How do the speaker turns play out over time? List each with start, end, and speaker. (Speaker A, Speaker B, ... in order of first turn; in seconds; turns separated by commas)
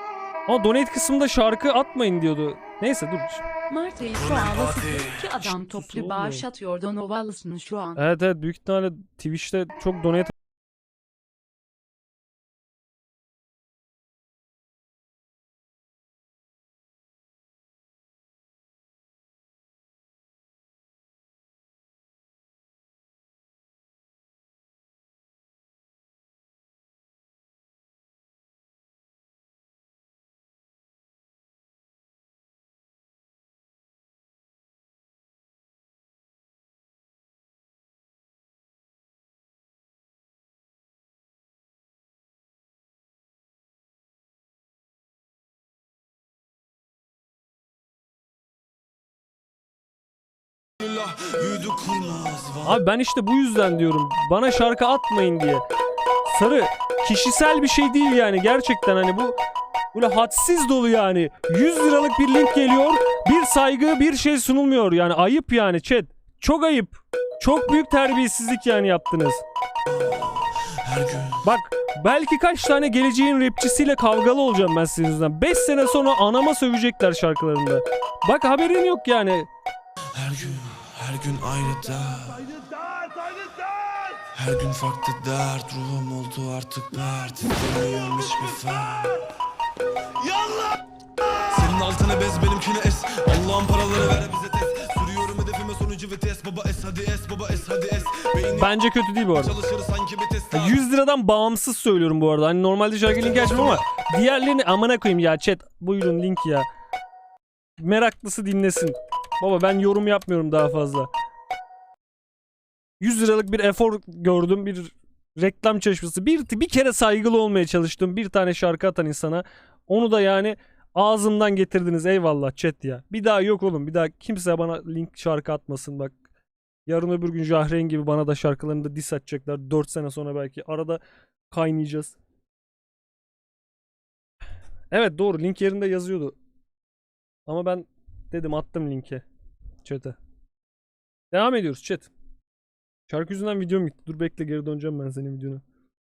Speaker A: 0.5-3.5, Speaker B: 3.7-8.0, Speaker C: 4.2-5.4, Speaker A: 5.7-6.5, Speaker A: 8.0-10.3, Speaker C: 50.8-52.8, Speaker A: 52.6-55.6, Speaker A: 56.2-59.4, Speaker A: 59.9-69.4, Speaker C: 69.9-71.4, Speaker A: 71.4-79.5, Speaker C: 80.1-82.6, Speaker C: 84.1-89.3, Speaker C: 90.2-90.6, Speaker C: 91.5-98.7, Speaker A: 98.5-99.5, Speaker C: 99.4-100.8, Speaker A: 100.5-106.7, Speaker C: 103.2-103.8, Speaker A: 107.8-111.1, Speaker A: 113.0-126.2, Speaker A: 126.9-132.2, Speaker A: 134.9-136.4, Speaker A: 137.5-139.2, Speaker A: 139.8-140.2, Speaker A: 141.3-142.1, Speaker A: 143.1-145.6